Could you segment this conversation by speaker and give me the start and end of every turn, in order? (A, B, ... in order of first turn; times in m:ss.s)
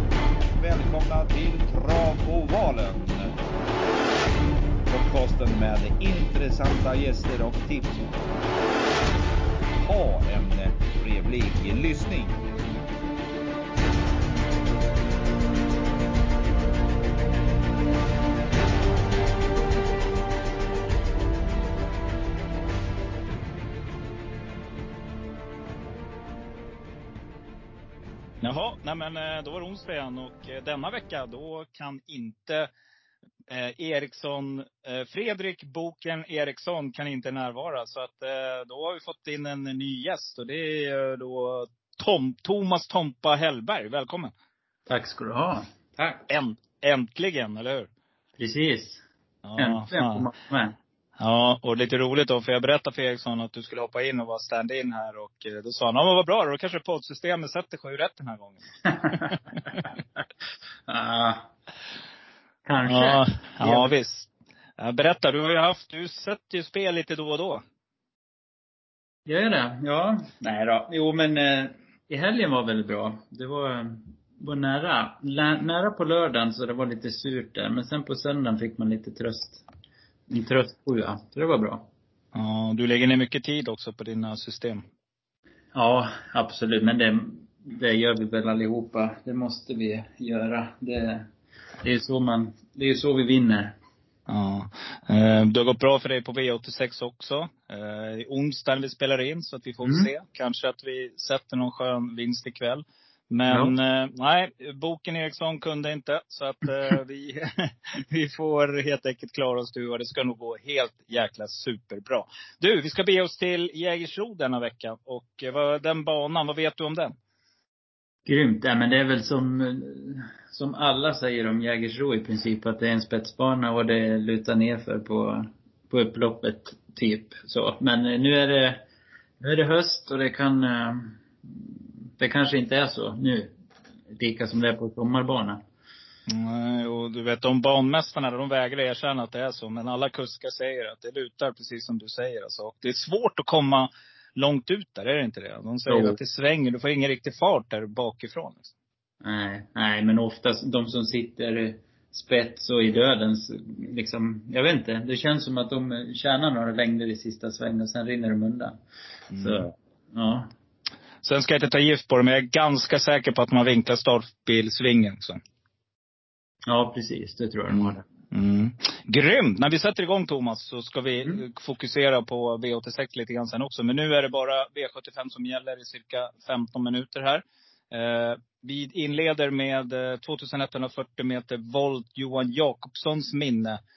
0:00.6-0:03.4 A
0:04.9-0:08.4 A
0:09.7-0:12.4 A
0:28.4-0:32.7 B
0:33.5-0:44.3 B
0:44.9-0:46.3 C
0:46.3-0:47.9 B
0:48.4-0:49.0 C
0:49.4-0:50.3 B
0:49.6-0:50.8 C
0:51.2-0:59.8 B
0:58.8-0:59.8 C
1:00.9-1:01.5 C
1:02.6-1:03.9 C
1:02.8-1:07.6 B
1:09.3-1:19.6 C
1:20.3-1:21.9 C
1:22.3-1:24.8 B
1:25.7-1:31.3 C
1:31.8-1:33.7 C
1:34.3-1:57.1 B
1:39.8-1:40.1 C
1:43.5-1:43.7 C
1:58.3-2:08.8 C
2:09.4-2:13.5 C
2:14.1-2:15.6 C
2:16.3-2:28.7 B
2:25.9-2:26.2 C
2:29.2-2:38.8 C
2:39.3-2:39.6 B
2:39.4-2:40.5 C
2:41.2-2:45.4 B
2:46.7-2:48.0 C
2:47.7-3:03.8 B